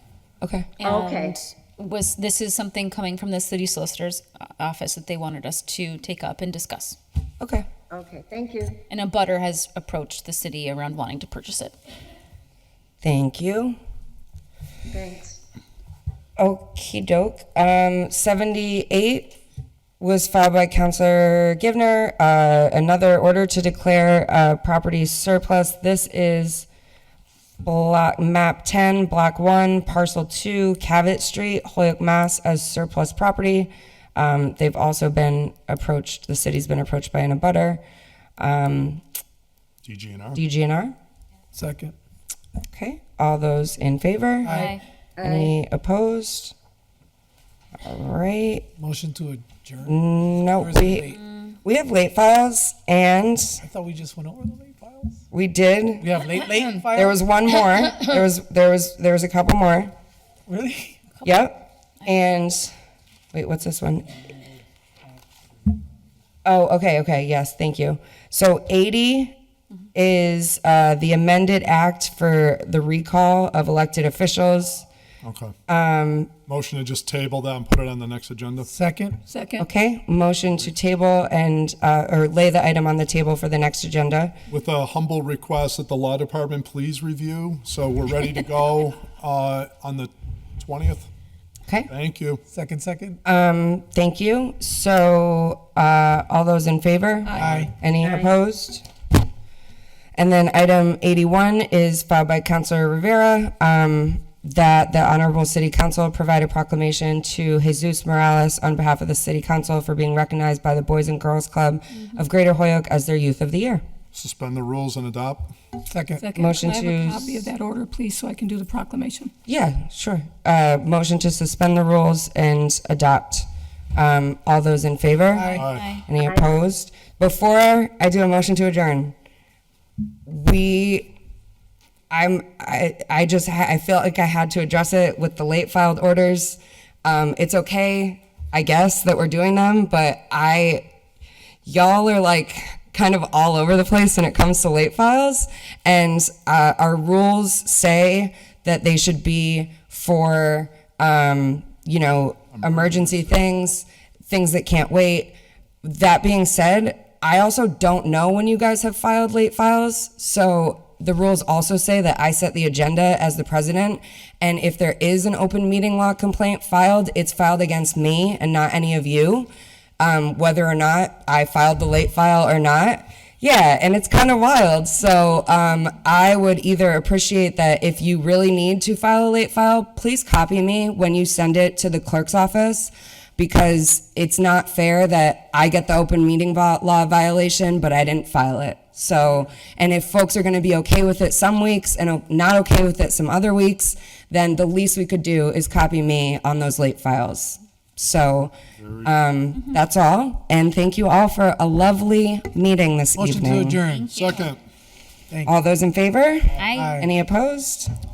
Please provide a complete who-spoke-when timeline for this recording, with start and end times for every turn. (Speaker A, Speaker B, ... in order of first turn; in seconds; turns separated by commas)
Speaker A: 0.4-0.7, Speaker B: 0.8-7.0, Speaker C: 0.8-1.3, Speaker A: 7.4-7.7, Speaker C: 7.9-8.8, Speaker B: 8.9-11.7, Speaker A: 13.0-13.8, Speaker C: 14.9-15.4, Speaker A: 16.4-19.4, Speaker A: 20.0-26.7, Speaker A: 27.6-37.8, Speaker A: 38.4-39.0, Speaker D: 39.8-40.4, Speaker A: 40.4-41.0, Speaker E: 41.5-42.0, Speaker A: 42.7-44.7, Speaker E: 44.4-44.8, Speaker B: 44.5-44.8, Speaker C: 45.2-45.5, Speaker A: 45.2-46.5, Speaker A: 47.8-48.7, Speaker E: 48.8-51.2, Speaker A: 49.9-53.6, Speaker B: 51.1-51.5, Speaker E: 53.6-55.2, Speaker A: 55.3-56.1, Speaker E: 56.0-57.2, Speaker A: 56.9-59.9, Speaker E: 60.5-61.2, Speaker A: 61.2-62.7, Speaker A: 63.3-64.1, Speaker A: 66.5-69.3, Speaker A: 70.0-74.8, Speaker D: 75.2-75.5, Speaker A: 75.7-76.3, Speaker D: 76.5-78.7, Speaker E: 78.7-79.2, Speaker F: 79.3-79.7, Speaker A: 79.6-84.3, Speaker D: 84.5-91.1, Speaker D: 91.9-92.4, Speaker E: 92.5-93.2, Speaker A: 93.2-98.8, Speaker E: 97.3-97.7, Speaker D: 97.4-97.7, Speaker A: 100.2-113.8, Speaker D: 114.1-115.5, Speaker E: 115.9-116.3, Speaker F: 116.2-119.3, Speaker A: 116.3-117.5, Speaker A: 119.5-125.5, Speaker E: 125.3-125.7, Speaker B: 125.3-126.0, Speaker D: 125.6-126.0, Speaker A: 126.0-129.2, Speaker A: 130.3-131.1, Speaker A: 132.1-140.8, Speaker A: 141.7-203.8, Speaker D: 152.5-153.3, Speaker D: 198.8-199.1, Speaker E: 203.2-204.1, Speaker B: 203.9-204.6, Speaker D: 204.1-204.6, Speaker E: 205.3-205.6, Speaker A: 205.4-207.9, Speaker B: 206.6-207.0, Speaker E: 206.7-207.1